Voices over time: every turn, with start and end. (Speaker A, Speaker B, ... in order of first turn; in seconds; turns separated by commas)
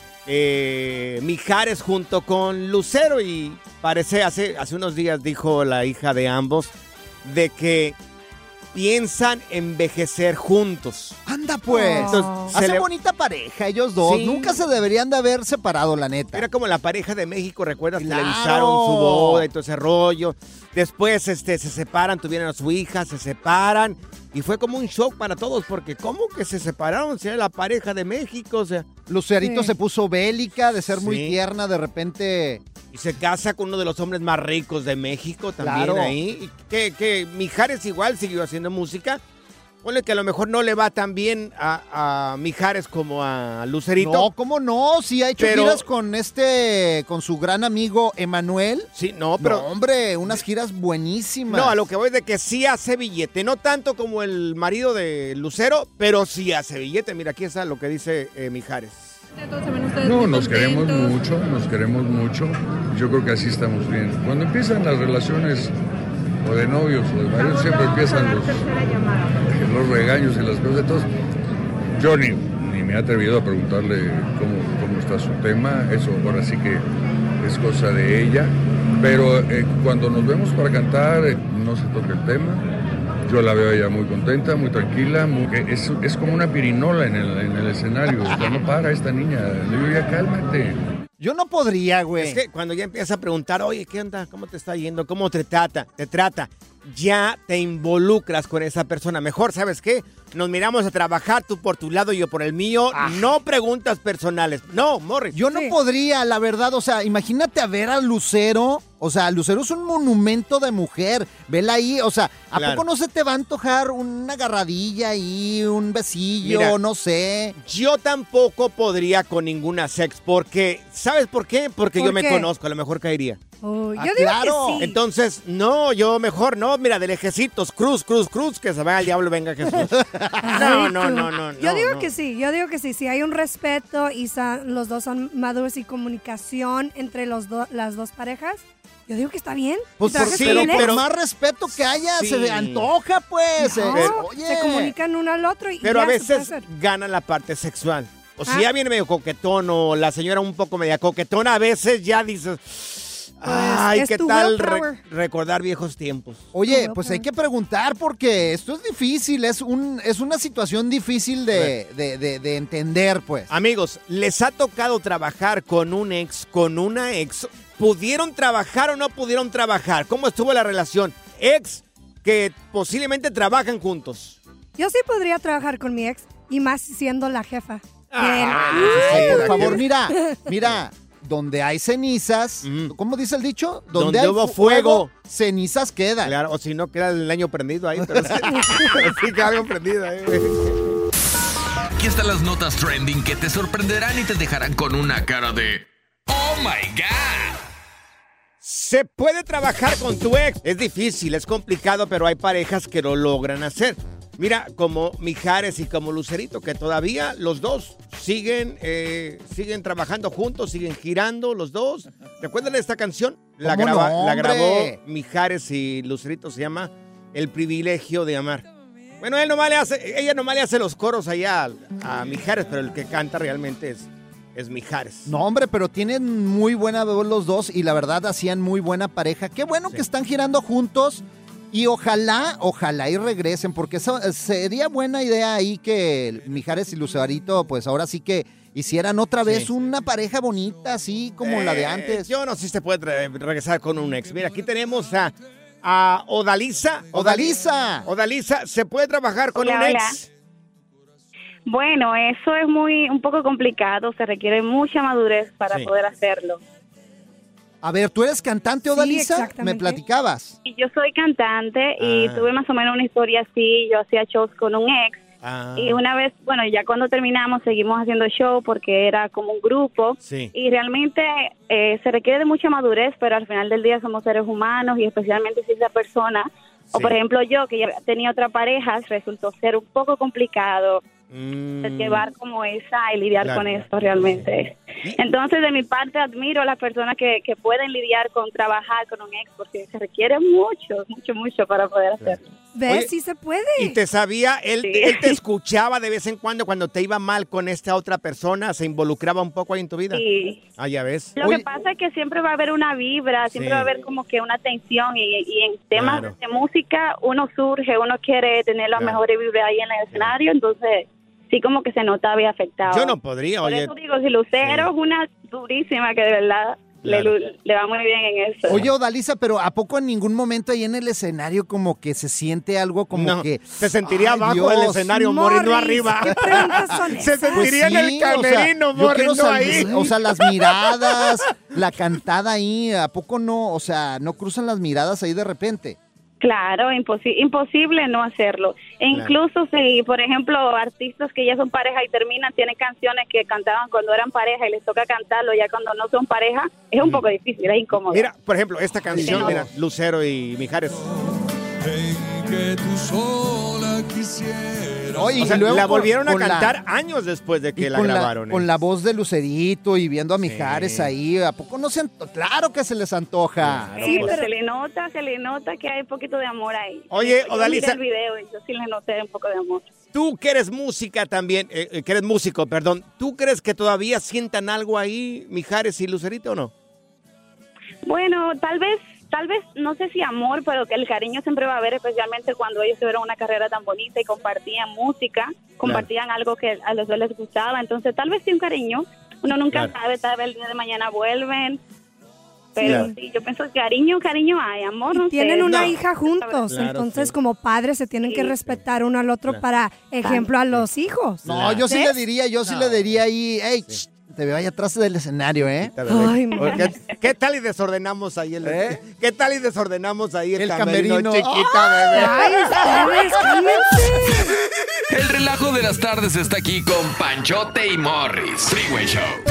Speaker A: 0.2-6.7, Speaker A: 7.2-8.0, Speaker A: 8.7-11.2, Speaker B: 11.2-16.4, Speaker C: 11.7-12.5, Speaker A: 12.0-12.8, Speaker A: 14.0-14.6, Speaker A: 16.3-28.9, Speaker B: 18.0-19.4, Speaker B: 29.1-32.6, Speaker C: 29.4-29.7, Speaker A: 31.0-31.4, Speaker A: 32.9-39.2, Speaker B: 35.6-36.1, Speaker A: 39.8-44.3, Speaker B: 44.0-48.9, Speaker A: 45.4-45.8, Speaker A: 48.9-49.7, Speaker B: 49.4-51.8, Speaker A: 51.5-59.2, Speaker D: 60.0-65.7, Speaker D: 66.4-68.7, Speaker D: 69.5-71.0, Speaker D: 72.0-76.8, Speaker D: 77.4-82.6, Speaker D: 83.2-90.8, Speaker B: 91.2-92.4, Speaker A: 92.2-105.3, Speaker B: 102.9-103.3, Speaker B: 105.3-117.5, Speaker C: 105.5-105.7, Speaker A: 112.5-112.8, Speaker A: 116.4-116.7, Speaker A: 117.6-123.4, Speaker C: 122.0-122.5, Speaker C: 123.6-124.9, Speaker B: 124.0-124.9, Speaker A: 124.8-132.1, Speaker B: 129.9-130.7, Speaker C: 130.4-140.9, Speaker B: 140.0-144.9, Speaker A: 140.1-141.0, Speaker A: 142.1-142.9, Speaker C: 143.6-146.7, Speaker A: 143.9-144.3, Speaker A: 145.8-156.5, Speaker C: 153.4-155.0, Speaker B: 156.5-163.5, Speaker C: 156.7-157.2, Speaker A: 163.5-174.4, Speaker C: 174.8-180.4, Speaker A: 178.1-179.8, Speaker B: 178.5-186.3, Speaker A: 182.6-182.9, Speaker A: 183.9-185.1, Speaker A: 186.2-190.8, Speaker B: 188.0-189.0, Speaker E: 192.0-197.6, Speaker A: 198.6-218.6, Speaker B: 213.6-215.0, Speaker A: 219.2-225.3, Speaker B: 225.2-242.3, Speaker A: 241.4-250.3, Speaker B: 247.1-248.1, Speaker F: 249.6-250.2, Speaker F: 251.7-256.6, Speaker B: 257.8-260.6, Speaker C: 258.9-260.0, Speaker F: 260.6-281.0, Speaker A: 262.0-262.5, Speaker A: 265.4-266.0, Speaker A: 270.2-270.5, Speaker A: 281.3-282.3, Speaker F: 281.8-292.4, Speaker A: 283.4-283.7, Speaker A: 292.2-293.1, Speaker C: 292.7-294.0, Speaker A: 293.8-300.2, Speaker F: 294.8-295.4, Speaker F: 300.1-300.6, Speaker A: 300.8-301.6, Speaker F: 301.4-318.8, Speaker A: 303.5-303.9, Speaker A: 305.9-306.4, Speaker A: 312.9-313.9, Speaker A: 314.6-314.9, Speaker A: 317.0-317.3, Speaker B: 318.7-325.1, Speaker A: 323.1-330.7, Speaker C: 325.1-327.7, Speaker B: 326.2-336.0, Speaker F: 336.4-348.3, Speaker A: 348.0-351.0, Speaker B: 349.1-349.7, Speaker F: 349.2-349.6, Speaker G: 351.1-355.5, Speaker B: 355.1-356.8, Speaker A: 355.4-358.7, Speaker B: 357.8-364.0, Speaker A: 360.4-361.1, Speaker A: 363.6-364.4, Speaker C: 364.0-364.5, Speaker F: 364.1-369.9, Speaker A: 367.1-368.0, Speaker A: 370.1-376.7, Speaker F: 378.1-391.8, Speaker F: 392.7-396.7, Speaker C: 392.8-393.1, Speaker A: 392.8-393.1, Speaker C: 395.1-402.1, Speaker A: 395.6-396.0, Speaker A: 396.7-397.3, Speaker F: 398.2-398.6, Speaker F: 400.2-400.5, Speaker A: 401.4-401.8, Speaker B: 401.4-405.9, Speaker A: 402.6-403.1, Speaker A: 405.8-413.1, Speaker C: 406.1-406.9, Speaker B: 406.6-406.9, Speaker B: 408.6-409.0, Speaker B: 410.6-412.8, Speaker C: 412.1-414.4, Speaker E: 415.1-419.4